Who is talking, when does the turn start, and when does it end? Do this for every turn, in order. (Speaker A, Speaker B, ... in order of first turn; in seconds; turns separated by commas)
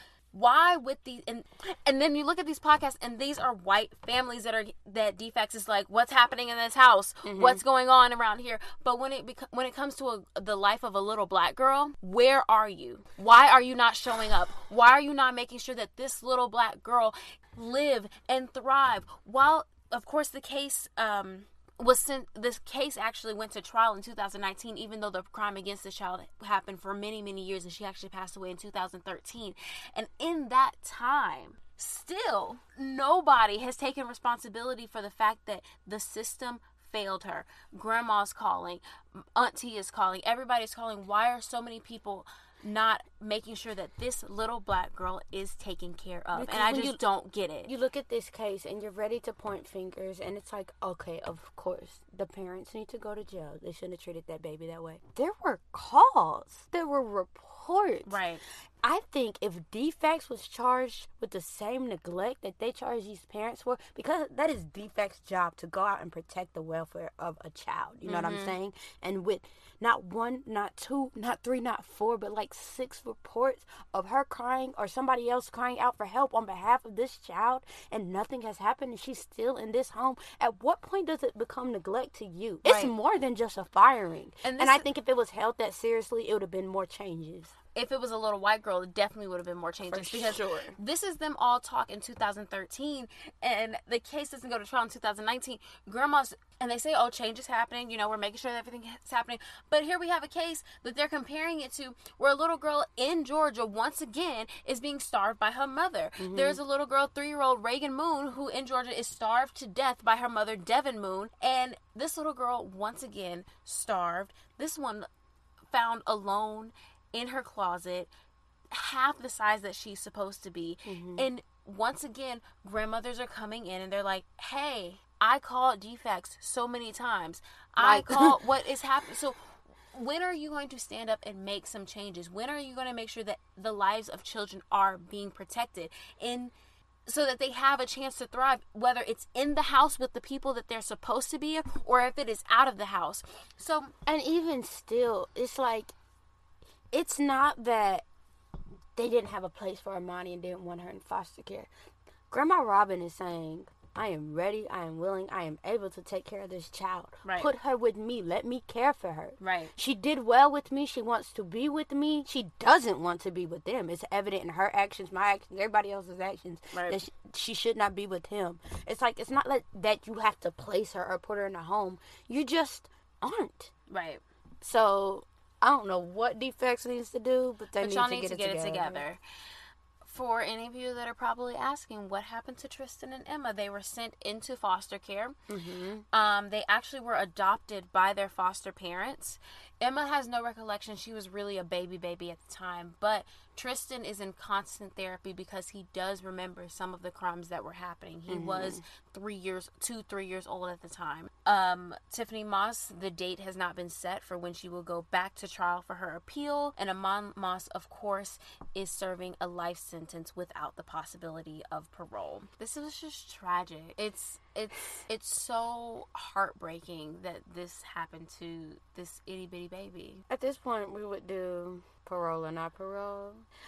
Speaker A: 0.3-47.7, Speaker B: 7.2-7.6, Speaker B: 46.3-47.0, Speaker B: 47.6-58.2, Speaker A: 58.0-58.4, Speaker B: 58.8-87.5, Speaker A: 68.0-68.5, Speaker A: 82.6-82.9, Speaker A: 84.4-84.8, Speaker A: 87.7-115.1, Speaker B: 89.8-90.8, Speaker B: 106.2-106.6, Speaker A: 115.7-118.1, Speaker A: 118.7-129.4, Speaker B: 120.8-121.3, Speaker B: 127.8-128.4, Speaker A: 129.9-136.5, Speaker A: 137.1-143.9, Speaker B: 144.0-145.9, Speaker B: 146.9-148.0, Speaker B: 148.9-151.7, Speaker B: 152.3-173.7, Speaker A: 157.2-157.5, Speaker A: 159.4-159.7, Speaker A: 166.7-167.0, Speaker A: 173.9-174.2, Speaker B: 174.6-179.1, Speaker A: 177.8-179.2, Speaker A: 180.0-185.3, Speaker B: 185.5-186.0, Speaker A: 186.1-220.2, Speaker B: 198.3-198.8, Speaker B: 220.3-223.5